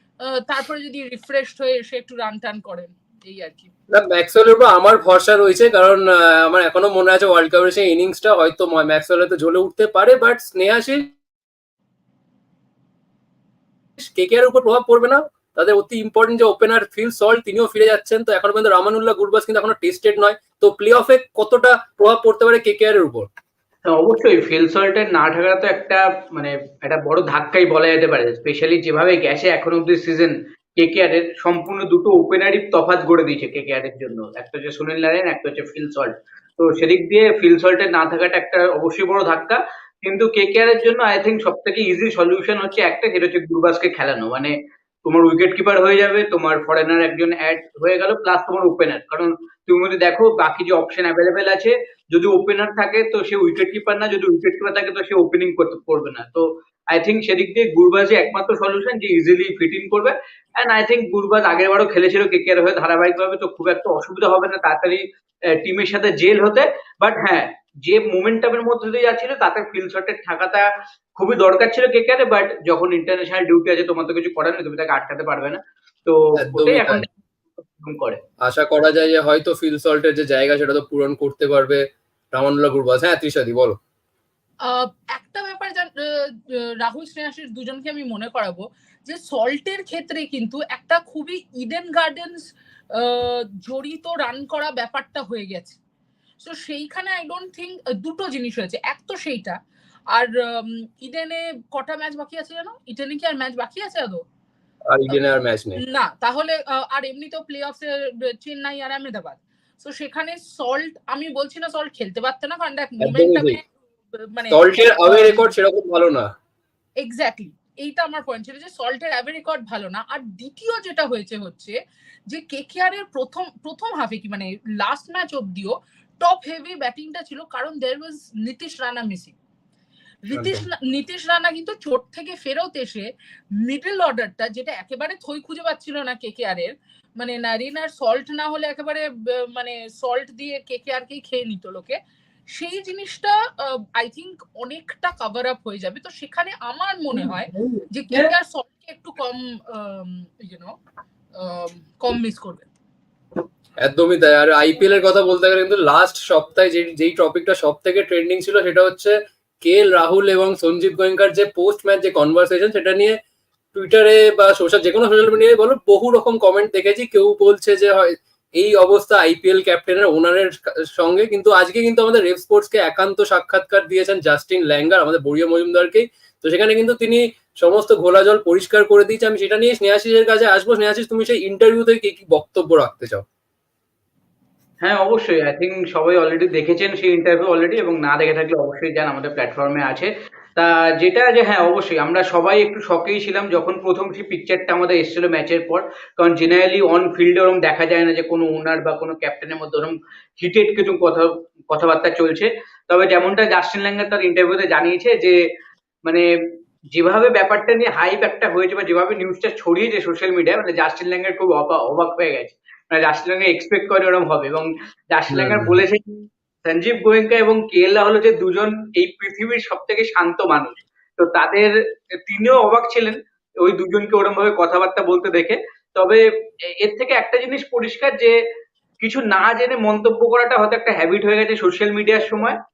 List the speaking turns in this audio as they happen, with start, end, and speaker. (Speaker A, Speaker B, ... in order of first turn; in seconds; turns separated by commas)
Speaker A: 0.3-3.7, Speaker B: 3.9-11.1, Speaker B: 14.0-23.2, Speaker C: 23.8-44.5, Speaker C: 45.0-65.0, Speaker C: 65.6-77.1, Speaker B: 76.4-77.0, Speaker C: 77.7-78.2, Speaker B: 78.4-83.8, Speaker A: 84.6-92.4, Speaker A: 92.9-95.8, Speaker A: 96.4-99.6, Speaker A: 100.1-104.2, Speaker B: 104.9-105.8, Speaker A: 105.8-113.7, Speaker B: 113.0-113.6, Speaker A: 114.3-115.5, Speaker B: 114.5-116.3, Speaker A: 117.0-121.7, Speaker A: 122.3-129.3, Speaker A: 130.3-133.1, Speaker B: 130.3-130.6, Speaker A: 133.6-142.0, Speaker A: 142.5-150.7, Speaker B: 147.1-148.3, Speaker A: 151.4-152.7, Speaker B: 153.8-163.2, Speaker B: 163.7-183.2, Speaker C: 184.8-205.3, Speaker C: 206.9-221.7, Speaker B: 215.3-215.8, Speaker C: 222.2-226.2, Speaker C: 226.8-228.3, Speaker C: 229.0-232.6